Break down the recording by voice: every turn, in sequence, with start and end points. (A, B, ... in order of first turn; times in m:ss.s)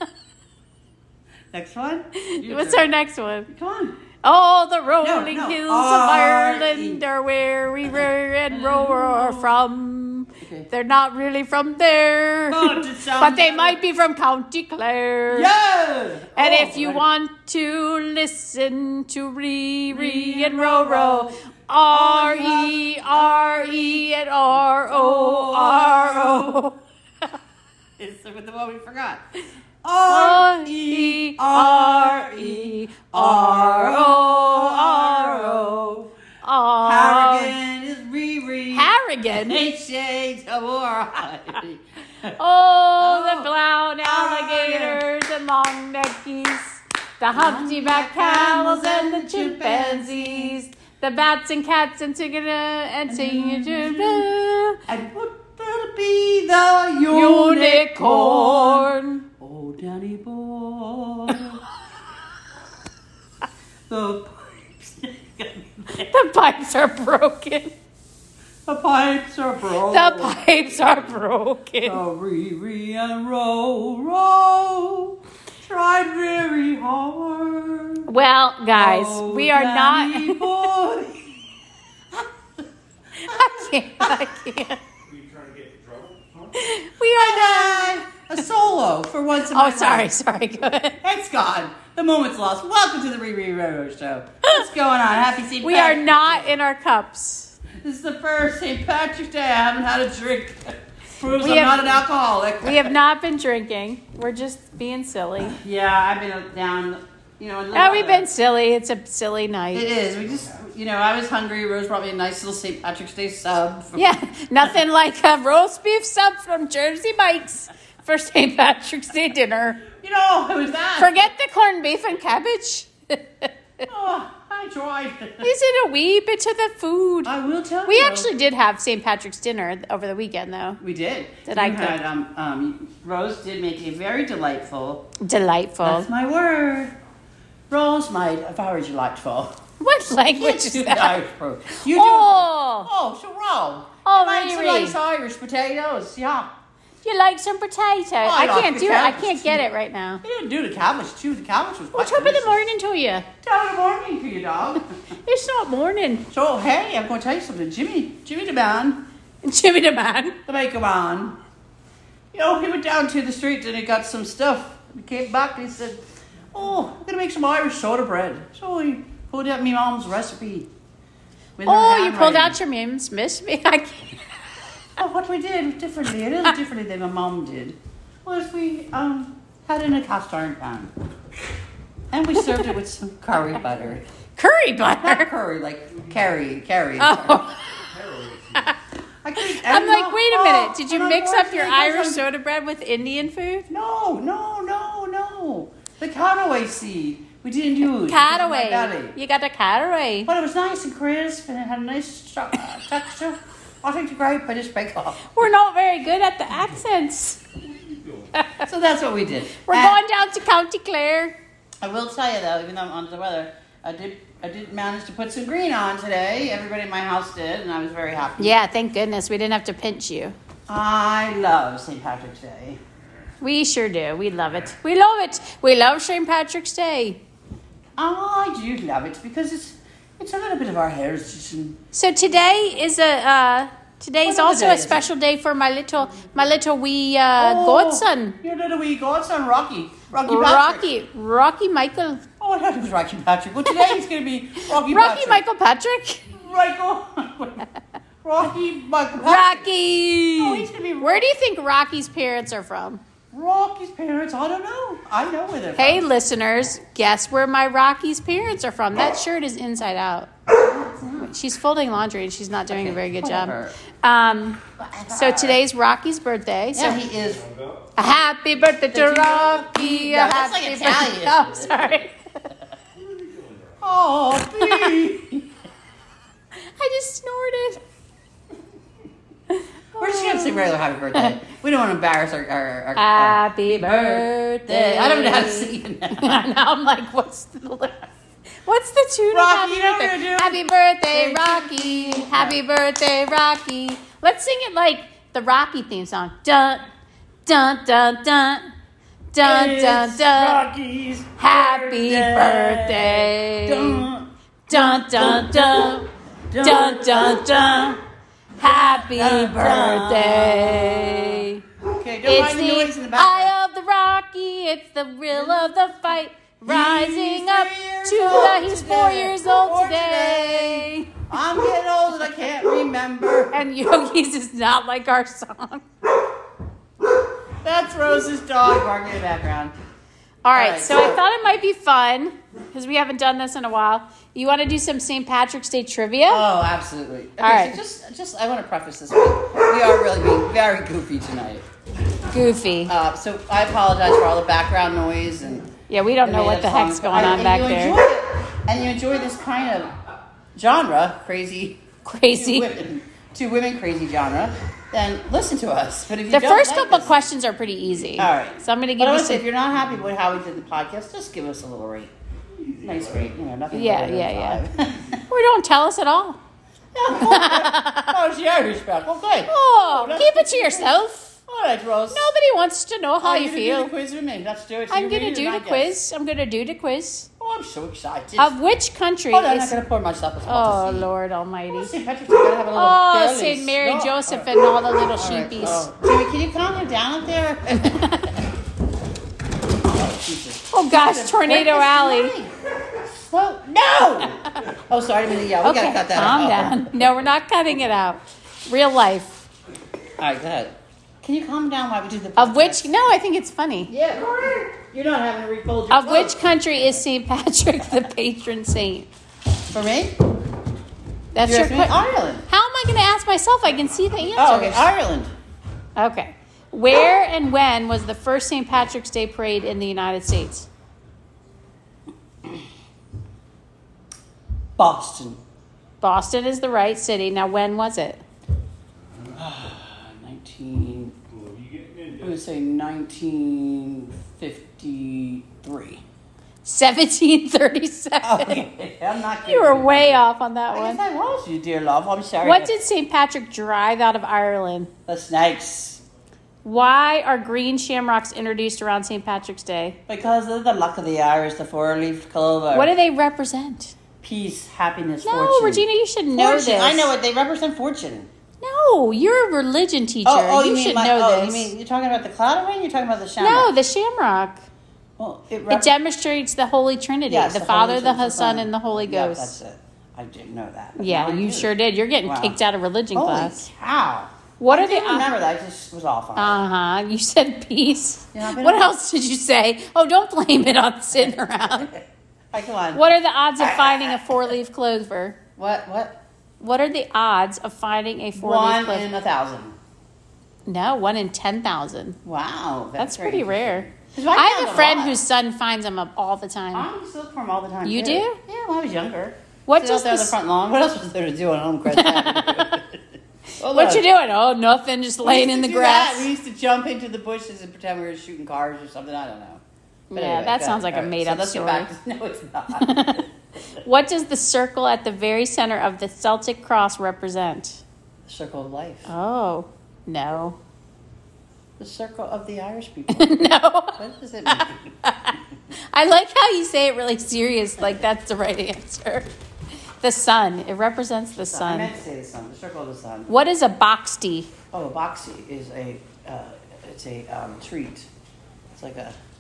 0:01.5-0:02.9 A
0:02.2-0:03.5 B
0:03.5-0:04.0 A
0:04.2-0:15.5 B
0:05.0-0:07.0 A
0:07.8-0:09.5 A
0:10.4-0:10.7 A
0:12.5-0:13.8 A
0:15.3-0:17.0 A
0:16.4-0:26.8 B
0:19.9-0:21.4 A
0:21.9-0:26.6 A
0:28.0-0:29.2 A
0:29.8-0:36.1 A
0:30.0-0:35.8 B
0:36.4-0:37.5 B
0:36.8-0:42.3 A
0:38.7-0:39.6 B
0:42.4-0:54.8 B
0:43.0-0:43.5 A
0:44.0-0:45.0 A
0:47.3-0:50.6 A
0:53.1-0:54.3 A
0:54.9-1:01.6 A
0:57.1-0:59.2 B
1:03.9-1:06.1 A
1:06.0-1:07.7 B
1:08.6-1:11.1 A
1:09.9-1:12.0 B
1:11.8-1:18.1 A
1:18.1-1:20.6 B
1:18.7-1:21.4 A
1:22.1-1:22.6 A
1:23.2-1:24.8 B
1:23.2-1:24.3 A
1:25.1-1:26.5 C
1:26.5-1:28.0 B
1:27.1-1:30.1 A
1:29.5-1:31.0 B
1:31.0-1:36.5 A
1:35.6-1:37.6 B
1:37.8-1:42.9 A
1:41.3-1:42.0 B
1:42.6-1:45.6 B
1:45.4-1:48.3 A
1:47.7-1:49.9 B
1:49.7-1:54.2 A
1:54.0-1:59.8 B
1:59.9-2:01.3 A
2:01.0-2:03.5 B
2:03.9-2:05.5 A
2:05.4-2:07.3 B
2:07.2-2:08.3 A
2:07.8-2:10.8 B
2:10.8-2:15.1 A
2:11.4-2:12.0 B
2:15.2-2:16.1 B
2:15.8-2:16.9 A
2:17.7-2:19.5 A
2:19.8-2:21.2 B
2:20.3-2:26.5 A
2:21.7-2:22.9 B
2:24.0-2:25.0 B
2:27.0-2:30.2 B
2:28.2-2:29.6 A
2:30.2-2:32.6 A
2:31.9-2:33.2 B
2:33.4-2:34.8 A
2:35.2-2:36.2 B
2:36.3-2:39.0 A
2:39.4-2:40.4 B
2:40.4-2:41.4 A
2:42.3-2:46.0 A
2:46.5-2:50.7 A
2:51.6-2:52.6 A
2:51.6-2:54.2 B
2:55.0-3:00.9 A
3:02.1-3:04.0 A
3:04.4-3:05.3 B
3:05.0-3:07.4 A
3:07.0-3:07.9 B
3:07.9-3:08.7 C
3:09.2-3:12.2 A
3:09.4-3:13.7 B
3:13.7-3:19.2 A
3:17.9-3:20.3 B
3:20.2-3:25.2 A
3:25.3-3:27.4 B
3:28.3-3:28.6 B
3:28.6-3:30.0 A
3:29.6-3:31.3 B
3:31.8-3:38.6 A
3:38.4-3:40.3 B
3:40.7-3:42.8 A
3:43.4-3:47.2 B
3:48.0-3:51.8 A
3:51.9-3:58.4 B
3:54.2-3:55.1 A
3:57.4-4:00.8 A
4:00.3-4:02.2 B
4:02.4-4:05.4 A
4:03.7-4:04.0 B
4:04.7-4:06.3 B
4:06.3-4:07.6 A
4:08.2-4:09.7 A
4:09.2-4:13.0 B
4:10.4-4:11.2 A
4:13.3-4:16.0 A
4:15.8-4:20.3 B
4:20.6-4:21.3 A
4:21.1-4:27.0 B
4:22.7-4:23.8 A
4:24.8-4:25.6 A
4:26.7-4:27.4 A
4:27.4-4:27.9 C
4:28.0-4:32.1 B
4:28.9-4:31.8 A
4:33.8-4:35.5 A
4:36.6-4:37.8 B
4:39.5-4:41.3 B
4:40.0-4:46.4 A
4:43.0-4:48.1 B
4:48.6-4:56.8 B
4:49.3-4:52.6 A
4:57.4-4:58.7 B
4:59.3-5:00.7 B
4:59.4-5:07.9 A
5:01.4-5:04.1 B
5:04.7-5:06.1 B
5:06.6-5:08.0 B
5:08.6-5:11.6 B
5:08.6-5:13.5 A
5:12.2-5:21.2 B
5:15.3-5:15.7 A
5:16.6-5:23.6 A
5:23.5-5:25.8 B
5:27.6-5:29.7 A
5:30.4-5:36.4 B
5:30.5-5:31.2 A
5:36.3-5:41.6 A
5:37.4-5:37.8 B
5:42.3-5:42.9 B
5:42.9-5:49.9 A
5:45.9-5:48.0 B
5:50.5-5:57.1 A
5:52.0-5:52.7 B
5:56.3-5:59.4 B
5:58.1-6:02.1 A
6:02.8-6:05.2 A
6:03.7-6:04.6 B
6:05.3-6:06.4 B
6:06.9-6:12.3 A
6:07.1-6:08.2 B
6:09.5-6:11.4 B
6:12.1-6:13.9 B
6:13.2-6:15.9 A
6:14.9-6:17.3 B
6:17.4-6:18.6 A
6:18.4-6:19.8 B
6:19.3-6:21.1 A
6:20.4-6:21.9 B
6:21.7-6:24.5 A
6:22.7-6:25.9 B
6:25.2-6:28.4 A
6:27.8-6:28.4 B
6:29.8-6:32.5 A
6:30.7-6:32.3 B
6:33.1-6:36.9 A
6:35.6-6:39.4 B
6:40.2-6:42.9 A
6:42.4-6:43.9 B
6:43.9-6:46.4 A
6:45.9-6:49.1 B
6:49.7-6:50.2 A
6:51.3-6:54.9 B
6:51.4-6:52.5 A
6:54.3-6:55.3 A
6:56.0-7:00.7 B
7:04.8-7:05.4 A
7:06.0-7:08.2 B
7:09.3-7:11.1 A
7:11.5-7:12.2 C
7:12.1-7:16.0 A
7:16.6-7:18.6 B
7:18.2-7:22.7 A
7:19.4-7:21.0 B
7:22.4-7:24.9 B
7:25.1-7:26.0 A
7:26.6-7:30.0 B
7:30.1-7:32.9 A
7:32.7-7:33.9 B
7:34.2-7:38.3 A
7:35.2-7:37.1 B
7:38.6-7:41.7 B
7:40.2-7:43.7 A
7:43.4-7:44.6 B
7:45.2-7:45.9 A
7:45.7-7:49.5 B
7:47.3-7:52.6 A
7:51.0-7:53.7 B
7:53.1-7:56.6 A
7:54.6-7:55.3 B
7:56.4-8:01.9 B
7:58.3-7:58.9 A
8:01.1-8:01.9 A
8:02.5-8:03.0 A
8:02.9-8:05.4 B
8:03.6-8:04.5 A
8:05.6-8:06.2 A
8:06.6-8:09.0 B
8:08.4-8:09.7 A
8:10.6-8:12.2 B
8:12.2-8:15.2 A
8:13.0-8:16.9 B
8:16.7-8:23.0 A
8:17.8-8:18.4 B
8:19.7-8:20.3 B
8:21.9-8:22.8 B
8:23.6-8:24.1 A
8:23.6-8:26.3 B
8:25.2-8:29.6 A
8:30.1-8:31.9 B
8:30.1-8:33.2 A
8:32.7-8:33.2 B
8:33.8-8:37.8 B
8:38.2-8:39.1 A
8:39.1-8:40.6 B
8:41.8-8:44.9 A
8:43.1-8:45.4 B
8:45.9-8:49.3 B
8:50.0-8:51.9 B
8:51.5-8:53.4 A
8:53.3-8:54.5 B
8:54.7-8:58.1 A
8:58.7-8:59.2 A